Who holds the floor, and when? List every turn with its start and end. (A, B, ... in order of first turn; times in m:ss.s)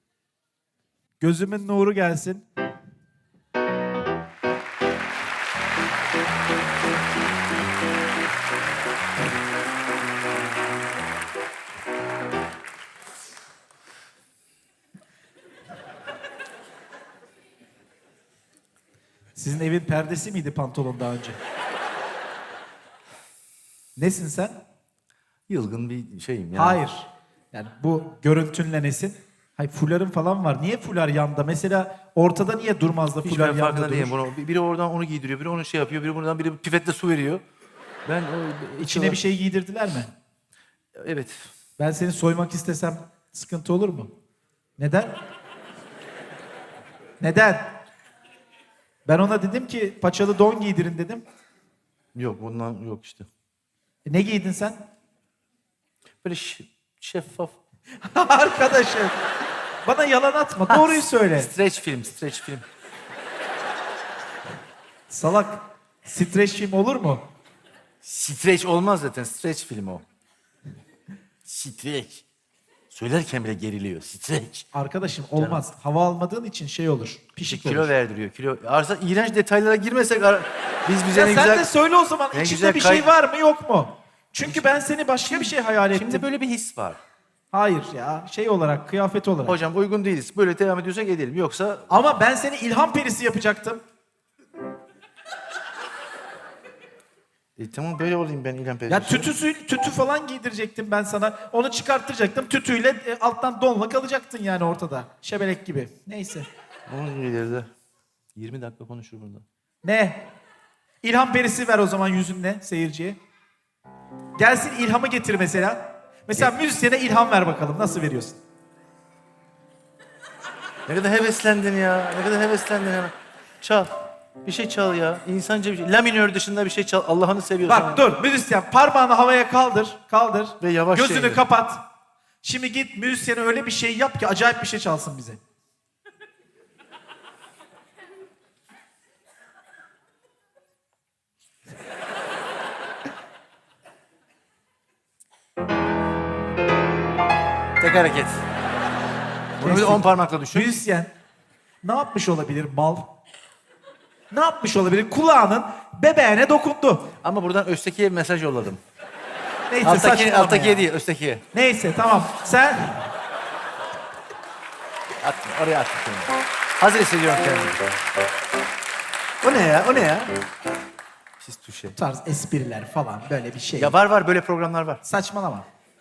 0:01.2-0:02.4 A
0:19.4-0:21.4 A
0:24.0-0:24.6 A
0:25.5-0:26.8 B
0:26.5-0:34.2 A
0:33.2-0:37.4 B
0:38.0-0:39.2 B
0:38.8-0:40.1 A
0:41.0-0:41.5 B
0:41.8-0:44.1 A
0:44.8-0:45.1 A
0:47.2-0:47.7 A
0:49.0-0:51.2 A
0:52.1-0:53.3 B
0:54.0-0:54.8 A
0:56.2-0:57.6 B
0:58.0-0:59.2 A
0:59.8-1:01.5 A
1:00.7-1:02.6 B
1:05.1-1:07.2 A
1:08.0-1:10.0 B
1:11.4-1:12.2 B
1:12.9-1:14.7 B
1:14.7-1:17.9 A
1:15.4-1:15.6 B
1:17.5-1:21.7 B
1:21.1-1:26.2 A
1:22.3-1:23.1 B
1:25.2-1:27.0 B
1:27.5-1:29.6 A
1:29.4-1:31.9 B
1:31.9-1:33.8 A
1:37.6-1:39.3 B
1:38.9-1:46.5 A
1:46.9-1:47.7 B
1:48.3-1:49.4 B
1:49.8-1:50.3 A
1:51.0-1:53.2 A
1:54.4-1:58.4 A
2:00.9-2:03.9 B
2:04.4-2:08.0 B
2:07.7-2:11.8 A
2:10.6-2:11.4 B
2:12.4-2:15.4 A
2:27.8-2:28.4 B
2:29.6-2:30.8 B
2:29.6-2:31.1 A
2:31.8-2:33.1 A
2:34.3-2:37.1 A
2:37.2-2:38.8 B
2:39.7-2:40.8 A
2:39.8-2:41.4 B
2:41.5-2:43.1 A
2:45.2-2:47.8 B
2:49.4-2:50.3 B
2:51.4-2:51.9 B
2:51.9-2:53.9 A
2:53.8-2:55.0 B
2:55.0-2:55.6 A